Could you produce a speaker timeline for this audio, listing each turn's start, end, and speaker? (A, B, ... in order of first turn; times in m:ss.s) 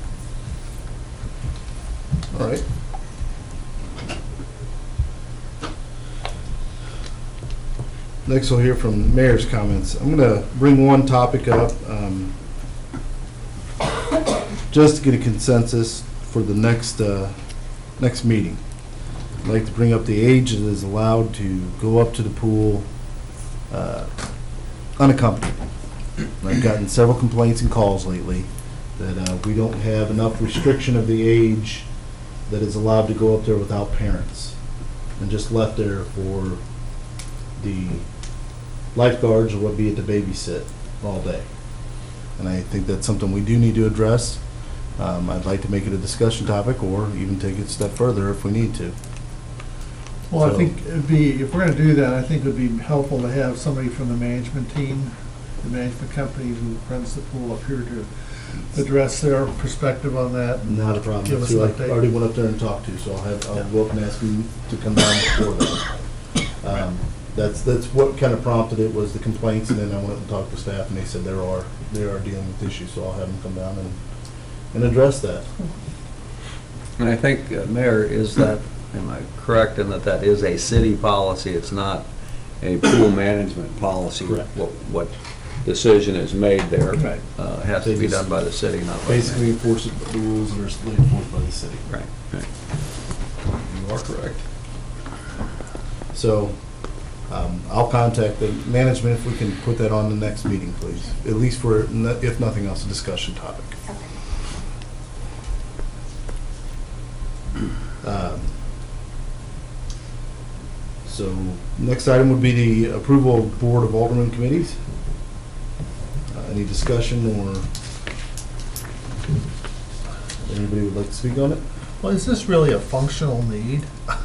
0:02.3-0:02.6 A
0:08.2-0:12.3 A
0:14.7-0:17.3 A
0:18.0-0:18.6 A
0:19.4-0:22.9 A
0:23.7-0:24.1 A
0:25.0-0:25.6 A
0:26.4-0:31.9 A
0:32.5-0:34.6 A
0:35.2-0:36.6 A
0:37.6-0:38.1 A
0:38.9-0:41.5 A
0:42.3-0:44.4 A
0:45.0-0:49.0 A
0:50.3-0:58.1 B
0:50.4-0:50.7 A
0:58.7-1:02.0 B
1:00.7-1:05.9 A
1:06.6-1:14.0 A
1:14.7-1:15.5 A
1:17.0-1:22.0 C
1:22.6-1:29.4 C
1:26.9-1:27.2 B
1:27.8-1:28.4 A
1:29.0-1:31.8 A
1:31.9-1:32.5 C
1:33.6-1:34.4 A
1:36.1-1:43.8 A
1:48.0-1:48.5 A
1:51.0-1:54.8 A
1:56.3-1:57.6 A
2:00.4-2:01.6 A
2:02.0-2:03.9 B